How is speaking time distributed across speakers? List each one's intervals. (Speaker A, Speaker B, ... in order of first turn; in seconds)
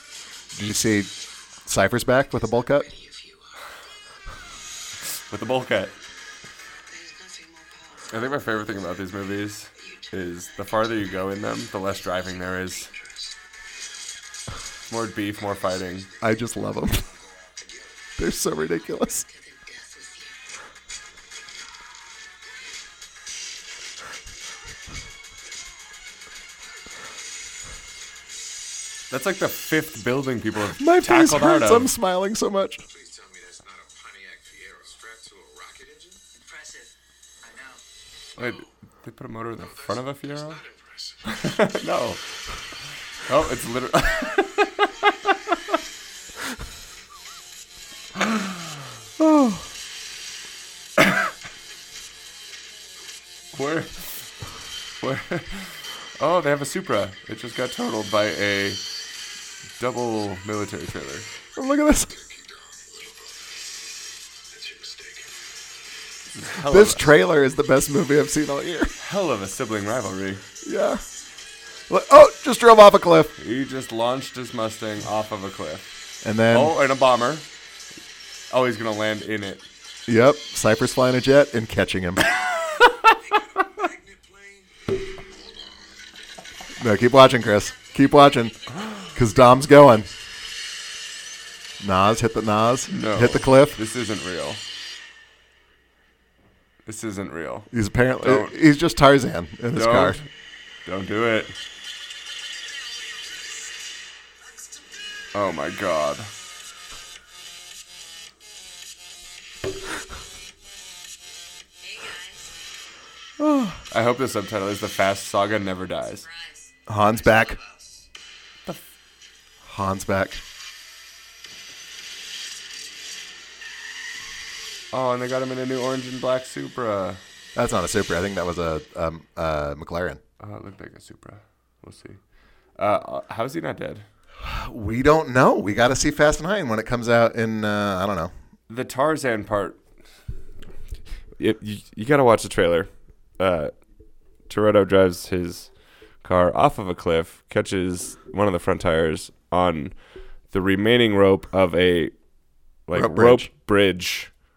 Speaker A: 0.5-1.1, 1.7-2.9, 16.2-17.1, 18.2-19.3, 30.8-32.8, 49.2-49.6, 61.6-62.1, 66.6-69.0, 70.6-71.0, 71.9-73.3, 76.2-76.7, 80.1-82.3, 86.8-90.1, 91.8-93.8, 97.7-100.2, 113.4-113.8, 116.9-117.6, 119.6-120.4, 127.5-130.2, 134.4-138.3, 152.9-153.5
Speaker B: 2.6-3.8, 6.9-8.4, 9.8-11.2, 11.7-13.4, 19.3-20.5, 36.3-37.8, 111.8-112.6, 116.2-118.1
Speaker C: 5.3-5.9, 8.1-12.9, 14.9-16.1, 29.1-31.9, 38.4-40.6, 41.2-42.2, 43.3-45.6, 48.2-48.6, 51.0-51.3, 53.5-54.3, 55.0-58.8, 59.8-61.3, 66.3-67.1, 69.0-70.4, 73.4-75.9, 76.5-77.5, 78.5-79.7, 92.9-94.6, 96.8-97.7, 98.2-98.5, 99.7-100.3, 100.9-101.6, 105.3-106.3, 113.9-116.2, 124.9-127.2, 130.4-132.2, 132.8-134.1, 138.7-139.8, 141.4-143.7, 144.5-145.7, 146.2-152.2, 152.9-154.3
Speaker D: 16.9-18.1, 32.9-36.2, 39.6-41.8, 62.1-63.7, 64.5-65.5, 83.3-84.7